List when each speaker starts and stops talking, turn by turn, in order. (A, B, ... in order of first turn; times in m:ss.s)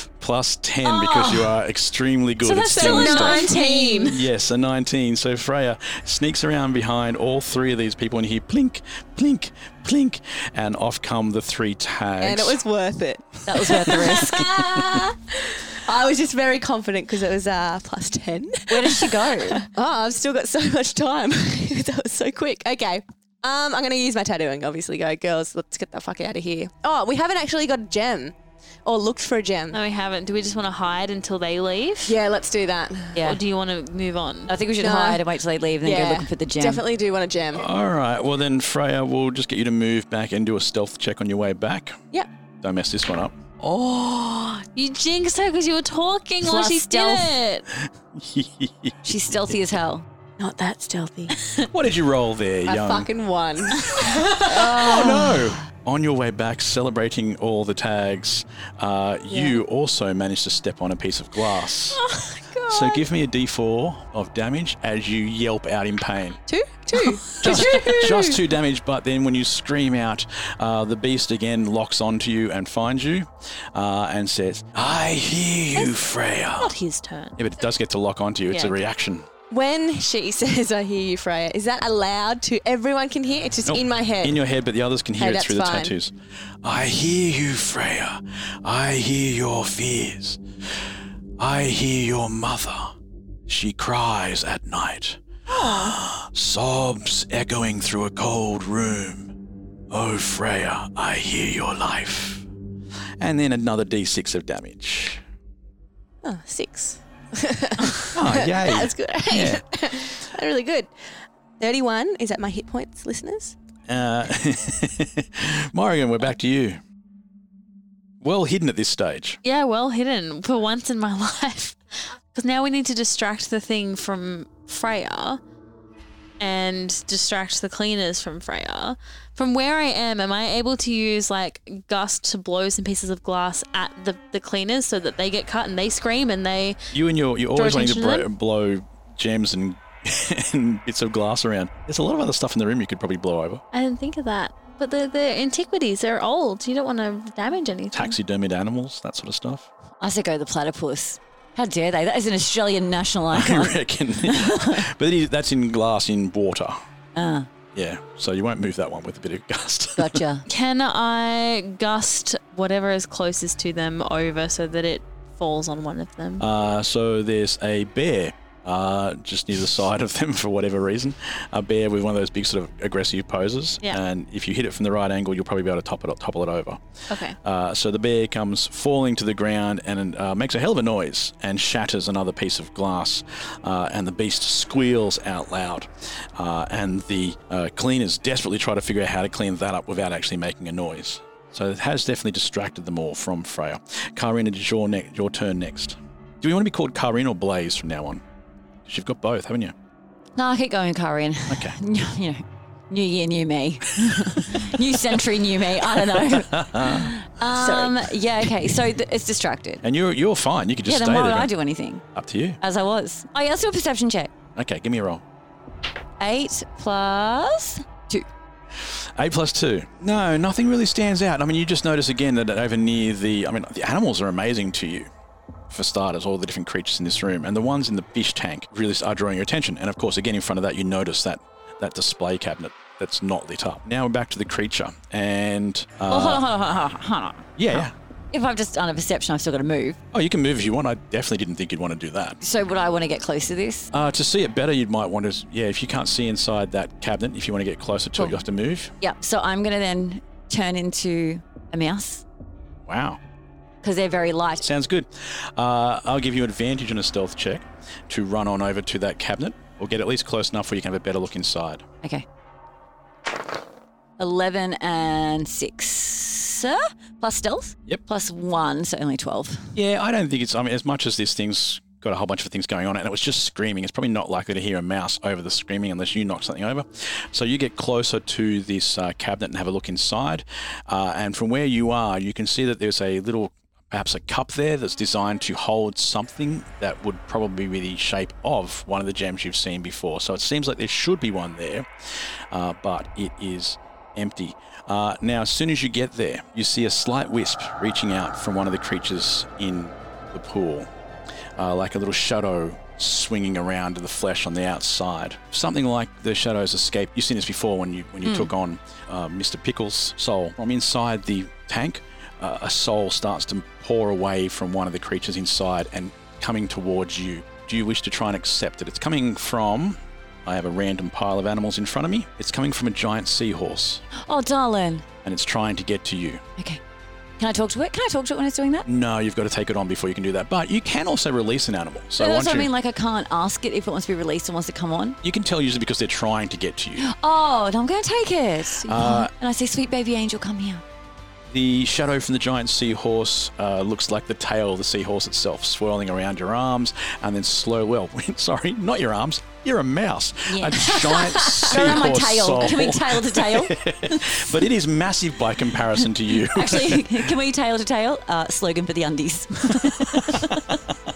0:00.2-0:03.5 A
0:02.5-0:04.2 B
0:02.5-0:04.2 C
0:04.1-0:12.6 A
0:12.2-0:29.8 C
0:13.4-0:14.7 D
0:18.7-0:19.6 D
0:29.7-0:32.2 B
0:32.0-0:33.2 C
0:33.1-0:33.4 D
0:33.2-0:34.5 B
0:34.5-0:36.8 D
0:34.8-0:35.2 C
0:35.8-0:37.6 C
0:37.6-0:42.0 A
0:42.6-0:43.4 A
0:43.6-0:44.7 C
0:44.8-0:47.6 B
0:46.4-0:47.3 D
0:47.8-0:49.0 A
0:49.0-0:50.0 D
0:50.4-0:51.3 C
0:51.3-0:51.7 B
0:51.7-0:53.1 A
0:52.6-0:55.2 C
0:54.4-1:02.0 A
0:54.5-0:55.6 D
0:59.3-0:59.6 C
1:02.0-1:03.0 B
1:02.7-1:06.4 A
1:06.5-1:08.4 C
1:07.4-1:16.7 A
1:07.4-1:07.9 B
1:16.6-1:17.4 B
1:17.4-1:19.3 A
1:18.5-1:18.8 B
1:19.5-1:24.4 C
1:23.6-1:30.4 A
1:25.2-1:25.9 C
1:31.4-1:32.9 A
1:33.5-1:39.3 A
1:35.5-1:36.0 B
1:39.9-1:42.4 A
1:43.2-1:45.2 A
1:46.2-1:50.9 C
1:48.1-1:49.6 A
1:51.6-1:53.6 C
1:53.9-1:56.8 A
1:58.2-1:59.4 A
1:59.4-2:05.4 B
2:06.4-2:16.8 B
2:16.9-2:23.6 A
2:17.6-2:18.3 B
2:23.7-2:28.2 B
2:27.9-2:29.7 A
2:30.0-2:34.8 D
2:33.3-2:36.8 A
2:37.1-2:37.5 D
2:37.7-2:40.2 A
2:40.0-2:40.4 D
2:40.5-2:46.4 B
2:46.4-2:56.8 A
2:57.1-2:57.4 B
2:57.4-3:18.2 A
3:18.9-3:19.7 A
3:20.4-3:29.8 D
3:21.5-3:21.8 A
3:24.3-3:24.6 A
3:26.1-3:27.1 A
3:27.5-3:28.0 C
3:29.8-3:31.5 A
3:30.9-3:32.0 D
3:32.1-3:32.6 A
3:32.6-3:34.3 D
3:34.6-3:35.2 A
3:36.2-3:38.3 D
3:38.8-3:45.1 A
3:45.7-3:56.4 A
3:56.1-4:00.0 D
3:57.6-3:57.9 A
4:00.1-4:02.4 A
4:02.4-4:03.9 D
4:03.9-4:08.9 A
4:09.0-4:12.2 D
4:12.9-4:13.2 A
4:13.8-4:14.6 D
4:14.6-4:21.8 A
4:24.2-4:29.7 D
4:29.7-4:51.9 A
4:52.5-5:00.9 A
5:01.6-5:24.0 A
5:08.2-5:08.5 D
5:24.2-5:25.0 D
5:25.2-5:26.4 A
5:27.4-5:28.9 D
5:28.9-5:32.7 A
5:32.2-5:35.2 D
5:35.2-5:37.1 A
5:37.0-5:40.8 D
5:38.8-5:39.3 A
5:41.5-5:57.3 A
5:50.5-5:54.4 D
5:56.4-6:00.7 D
6:00.0-6:00.5 A